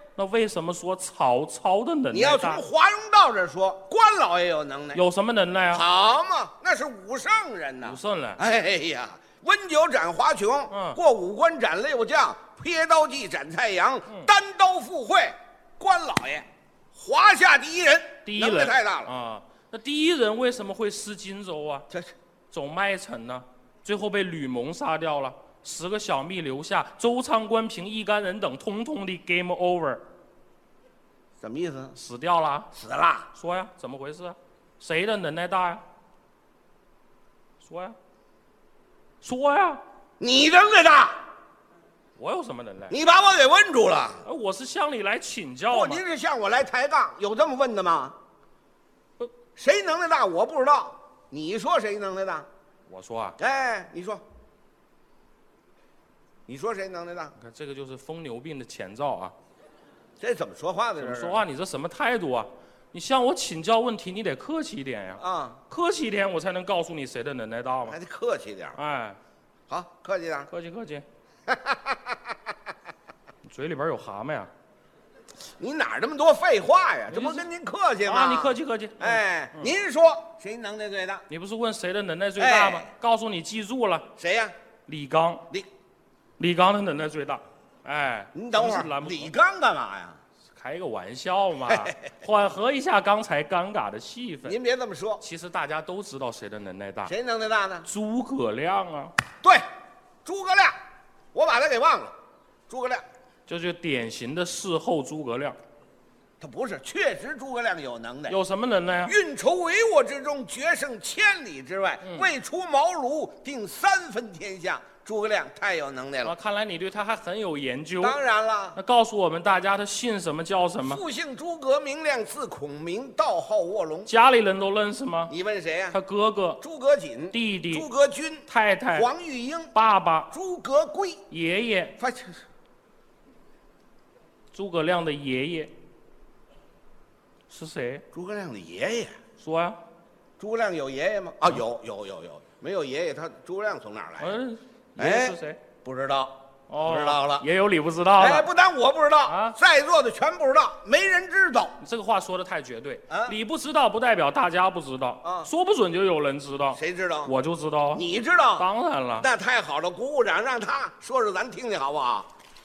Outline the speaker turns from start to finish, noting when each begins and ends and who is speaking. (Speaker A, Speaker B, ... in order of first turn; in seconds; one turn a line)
Speaker A: 0.1-2.6
Speaker B: 2.1-5.0
Speaker A: 4.9-5.8
Speaker B: 5.7-19.1
Speaker A: 7.8-8.4
Speaker A: 10.7-11.0
Speaker A: 18.2-21.9
Speaker A: 22.5-30.0
Speaker B: 31.4-32.0
Speaker A: 32.0-32.7
Speaker B: 32.7-33.3
Speaker A: 33.3-35.8
Speaker A: 37.6-38.0
Speaker A: 39.2-39.8
Speaker B: 40.2-41.2
Speaker A: 42.2-43.0
Speaker B: 42.9-44.2
Speaker A: 44.2-46.0
Speaker B: 45.7-48.1
Speaker B: 49.5-52.5
Speaker A: 52.9-53.4
Speaker B: 53.4-54.2
Speaker B: 56.5-57.3
Speaker A: 57.4-59.3
Speaker B: 60.2-61.4
Speaker A: 61.0-68.0
Speaker B: 65.2-65.6
Speaker B: 67.8-68.8
Speaker A: 68.8-69.2
Speaker B: 69.7-70.5
Speaker A: 70.5-71.0
Speaker B: 71.5-72.2
Speaker A: 73.5-74.5
Speaker B: 75.6-81.2
Speaker A: 77.1-77.4
Speaker A: 78.0-79.7
Speaker A: 81.3-84.0
Speaker B: 82.4-82.9
Speaker B: 84.2-84.5
Speaker A: 84.9-85.5
Speaker A: 86.4-89.3
Speaker B: 88.3-90.2
Speaker A: 90.6-94.5
Speaker B: 91.7-92.0
Speaker B: 94.4-95.2
Speaker A: 95.2-97.1
Speaker B: 97.0-97.9
Speaker A: 97.8-99.1
Speaker B: 100.2-100.8
Speaker B: 101.3-102.1
Speaker B: 102.7-103.0
Speaker A: 103.5-105.6
Speaker B: 106.4-108.4
Speaker A: 108.3-109.1
Speaker B: 109.0-116.3
Speaker A: 112.0-112.3
Speaker A: 116.2-118.2
Speaker B: 118.0-118.8
Speaker A: 118.8-121.0
Speaker B: 120.8-124.1
Speaker A: 124.1-125.3
Speaker B: 125.3-126.0
Speaker A: 125.9-126.6
Speaker B: 126.6-129.7
Speaker A: 127.3-127.9
Speaker A: 128.5-129.1
Speaker A: 129.7-130.3
Speaker B: 130.3-131.2
Speaker A: 131.3-131.9
Speaker B: 132.0-132.4
Speaker A: 134.5-135.7
Speaker A: 137.5-138.0
Speaker B: 138.1-139.2
Speaker A: 139.4-139.8
Speaker B: 140.4-144.4
Speaker A: 144.2-145.6
Speaker B: 145.0-147.4
Speaker A: 146.7-148.5
Speaker B: 148.2-151.8
Speaker A: 149.2-149.6
Speaker A: 151.8-158.0
Speaker B: 153.1-153.3
Speaker B: 155.2-155.5
Speaker B: 156.8-157.3
Speaker B: 157.9-158.7
Speaker A: 158.6-159.3
Speaker B: 159.2-162.3